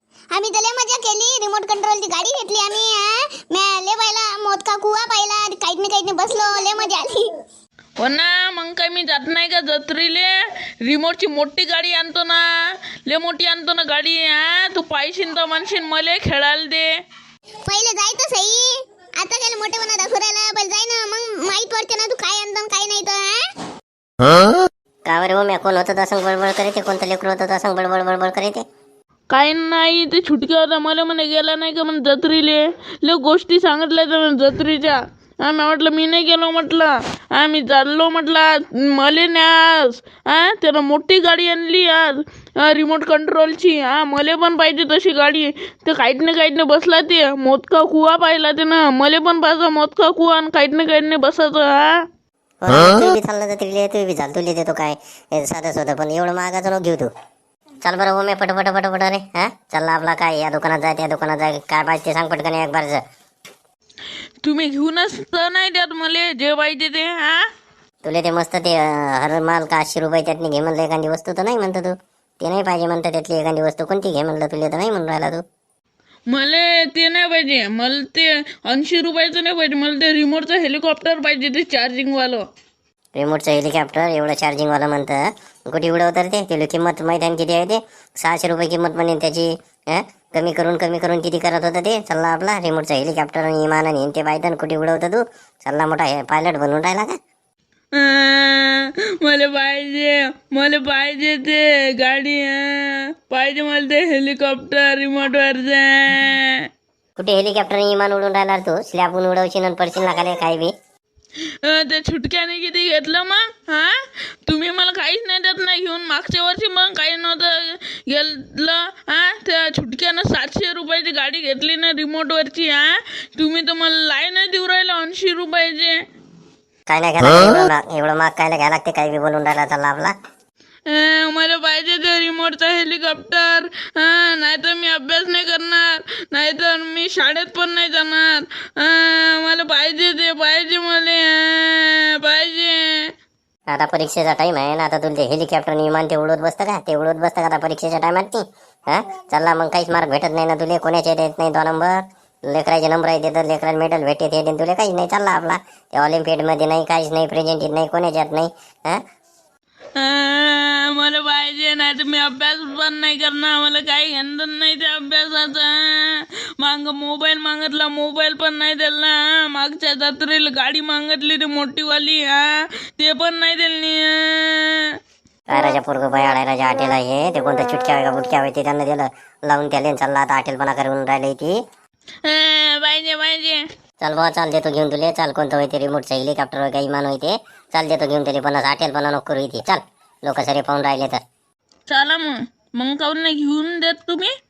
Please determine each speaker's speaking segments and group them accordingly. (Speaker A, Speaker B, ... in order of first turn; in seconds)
Speaker A: 0.3-7.3, 17.6-23.4
Speaker B: 8.0-16.9, 29.3-52.0, 64.4-67.4, 76.3-82.4, 97.9-106.6, 111.6-126.0, 130.9-143.1, 159.9-174.9, 182.2-183.6, 191.9-194.3
Speaker C: 25.1-28.6, 52.6-57.1, 57.8-63.0, 68.0-75.4, 83.1-97.1, 107.2-110.7, 126.9-130.1, 143.7-159.0, 175.5-181.6, 184.0-191.2